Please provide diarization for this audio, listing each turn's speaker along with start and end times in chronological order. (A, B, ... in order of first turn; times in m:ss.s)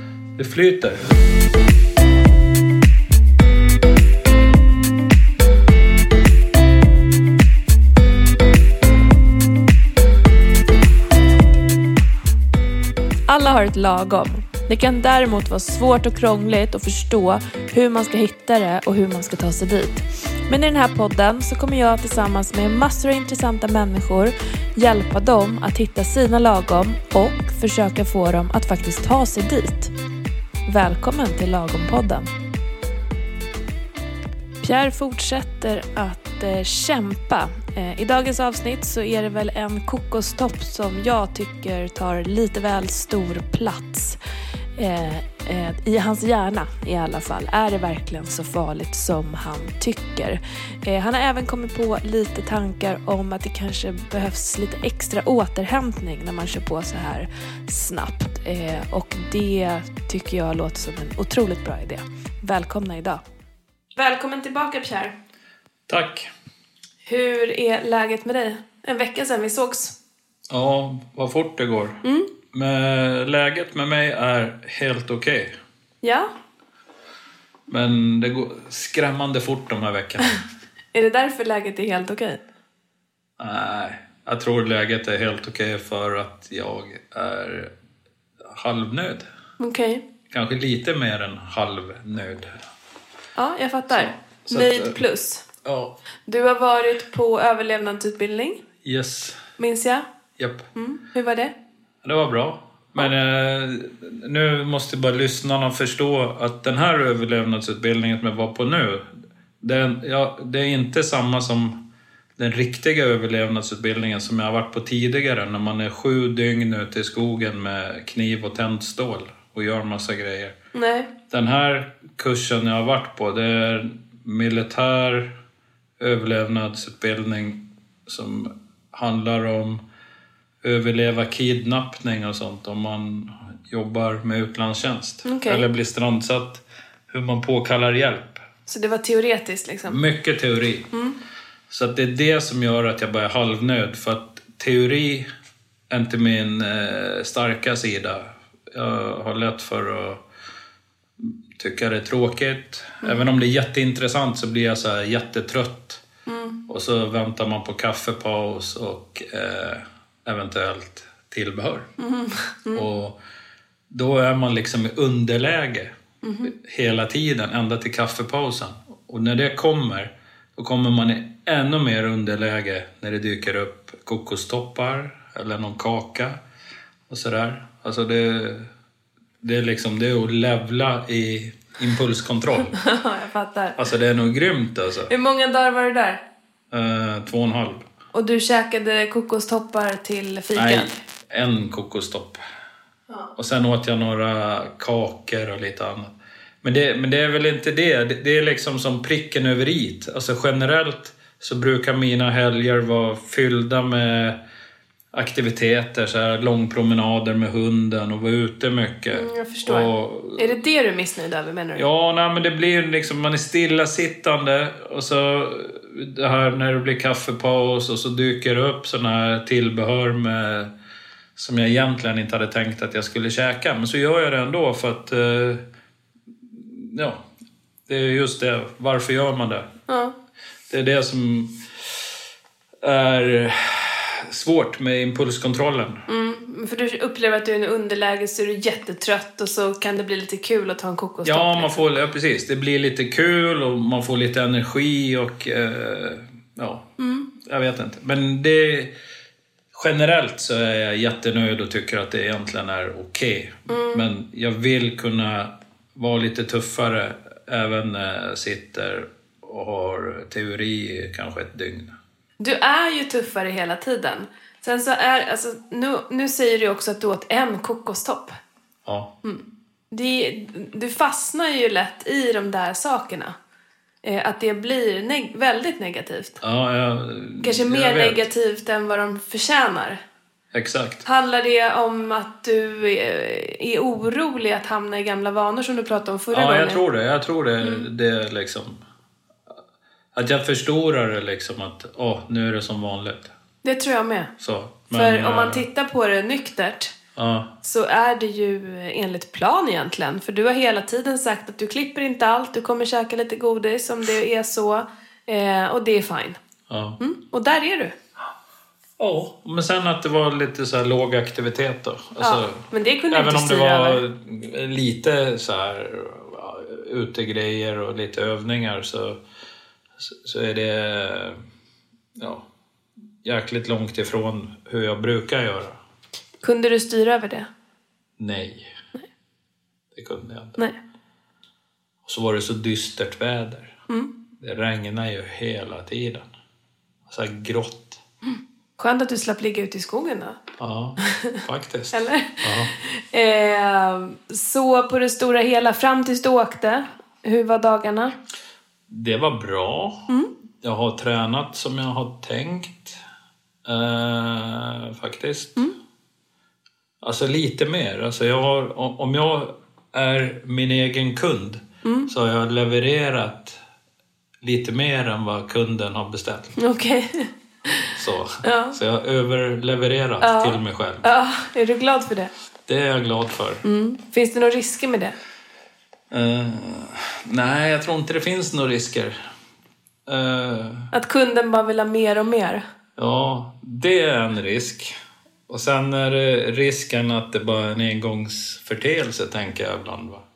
0:00.4-0:01.0 A
0:13.3-0:29.9 B
0:30.6-0:32.3 B
0:34.6-0:44.2 B
0:44.8-1:03.2 B
1:04.0-1:05.2 B
1:05.9-1:06.3 A
1:07.0-1:09.9 B
1:10.5-1:15.6 A
1:12.0-1:12.3 B
1:16.0-1:16.3 B
1:17.7-1:20.4 A
1:20.9-1:22.4 B
1:23.4-1:27.7 A
1:28.5-1:29.2 A
1:29.6-1:30.0 B
1:30.3-1:32.5 A
1:33.4-1:35.4 B
1:33.9-1:35.0 A
1:35.6-1:36.0 A
1:36.2-1:38.6 B
1:38.8-1:39.4 A
1:39.6-1:40.0 B
1:40.4-1:40.7 A
1:40.8-1:41.5 B
1:42.0-1:49.0 A
1:49.6-1:51.8 A
1:52.4-2:00.5 A
2:00.7-2:01.1 B
2:01.3-2:05.3 A
2:06.0-2:09.8 A
2:10.6-2:18.4 A
2:15.2-2:15.6 B
2:18.7-2:20.0 B
2:19.9-2:20.9 A
2:20.9-2:21.2 B
2:21.7-2:25.3 A
2:25.9-2:30.2 A
2:31.2-2:36.0 A
2:36.2-2:36.6 B
2:36.7-2:41.9 A
2:42.0-2:42.8 B
2:42.7-2:43.2 A
2:43.9-2:56.4 A
2:46.2-2:46.5 B
2:57.1-2:58.7 A
2:59.4-3:02.8 A
3:02.7-3:03.8 B
3:03.8-3:05.1 A
3:05.1-3:06.2 B
3:06.7-3:07.9 A
3:08.1-3:11.0 B
3:10.5-3:12.4 A
3:13.4-3:24.4 A
3:25.1-3:30.5 A
3:29.1-3:31.8 B
3:31.8-3:40.7 A
3:41.4-3:45.6 A
3:46.6-3:47.2 A
3:47.9-3:49.7 A
3:49.9-3:50.1 B
3:50.7-3:51.5 A
3:52.8-3:56.0 A
3:56.1-4:01.8 B
4:01.2-4:08.9 A
4:07.0-4:07.3 B
4:09.7-4:21.9 A
4:13.7-4:14.0 B
4:22.4-4:28.3 B
4:28.8-4:29.1 A
4:29.2-4:33.4 B
4:34.0-4:36.4 B
4:36.4-4:38.2 A
4:37.4-4:40.0 B
4:40.5-4:41.0 A
4:41.0-4:46.8 B
4:46.3-4:48.8 A
4:50.1-4:53.3 A
4:53.6-4:54.3 B
4:54.4-4:55.6 A
4:54.9-4:56.9 B
4:57.2-4:57.5 A
4:57.6-5:06.4 B
5:06.7-5:07.0 A
5:07.0-5:07.9 B
5:09.0-5:19.2 A
5:12.2-5:14.0 B
5:20.0-5:21.4 A
5:22.2-5:22.5 A
5:23.2-5:25.8 A
5:26.4-5:27.5 B
5:28.2-5:28.7 A
5:29.9-5:30.6 A
5:32.0-5:33.8 A
5:34.4-5:36.2 A
5:37.1-5:38.0 A
5:38.8-5:40.4 B
5:40.6-5:42.7 A
5:41.0-5:41.4 B
5:41.9-5:48.1 B
5:48.9-5:53.0 A
5:53.6-5:55.6 A
5:57.0-6:03.6 A
6:01.8-6:02.1 B
6:04.4-6:06.6 A
6:06.6-6:07.8 B
6:07.9-6:11.0 A
6:08.4-6:08.8 B
6:10.2-6:12.3 B
6:12.7-6:13.6 A
6:13.6-6:15.1 B
6:16.1-6:19.2 A
6:20.1-6:20.9 A
6:20.9-6:22.6 B
6:23.0-6:24.9 A
6:25.5-6:30.2 A